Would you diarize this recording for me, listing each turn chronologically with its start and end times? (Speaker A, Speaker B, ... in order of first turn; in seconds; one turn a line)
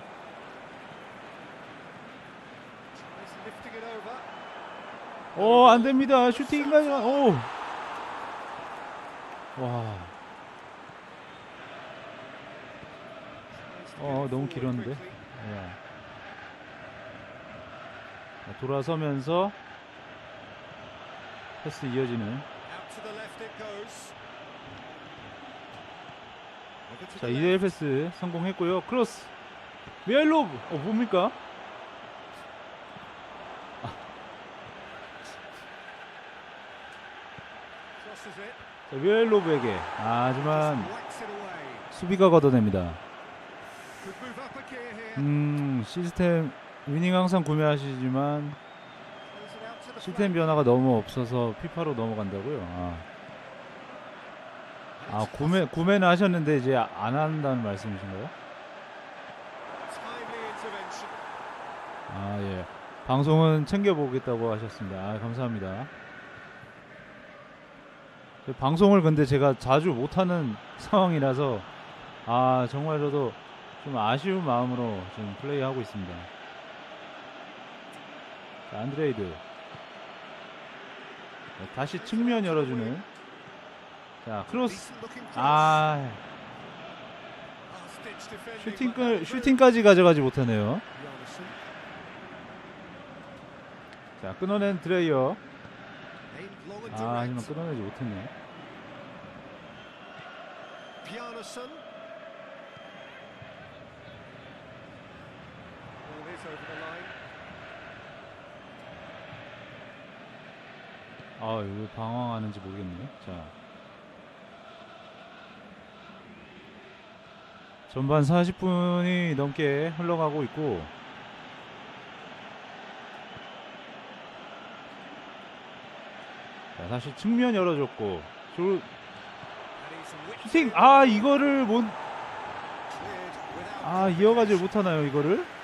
Speaker A: 2.9-4.3
Speaker B: 5.3-7.5
Speaker A: 5.3-7.4
Speaker B: 9.6-10.1
Speaker A: 13.5-15.2
Speaker B: 14.0-15.8
Speaker B: 18.4-19.6
Speaker B: 21.6-22.4
Speaker A: 22.6-24.1
Speaker A: 26.9-27.8
Speaker B: 27.1-29.3
Speaker B: 30.0-31.4
Speaker A: 38.0-38.6
Speaker B: 38.9-40.9
Speaker A: 40.3-41.9
Speaker B: 41.9-43.0
Speaker A: 44.0-45.3
Speaker B: 45.1-48.6
Speaker A: 49.2-50.8
Speaker B: 50.0-53.1
Speaker A: 55.0-55.8
Speaker B: 55.1-58.3
Speaker A: 59.9-61.2
Speaker B: 62.1-65.9
Speaker B: 68.5-71.7
Speaker B: 72.2-76.3
Speaker B: 78.7-79.4
Speaker B: 81.6-83.0
Speaker A: 81.7-83.0
Speaker B: 84.2-86.2
Speaker A: 84.5-85.9
Speaker A: 87.7-89.6
Speaker B: 88.6-90.8
Speaker A: 90.9-91.6
Speaker B: 94.2-95.4
Speaker A: 96.3-97.7
Speaker B: 96.9-98.3
Speaker A: 101.0-101.8
Speaker A: 106.0-107.2
Speaker B: 111.4-113.5
Speaker B: 117.9-120.9
Speaker B: 126.8-128.9
Speaker A: 129.8-131.4
Speaker B: 130.4-132.0
Speaker A: 132.9-134.8
Speaker B: 133.8-135.5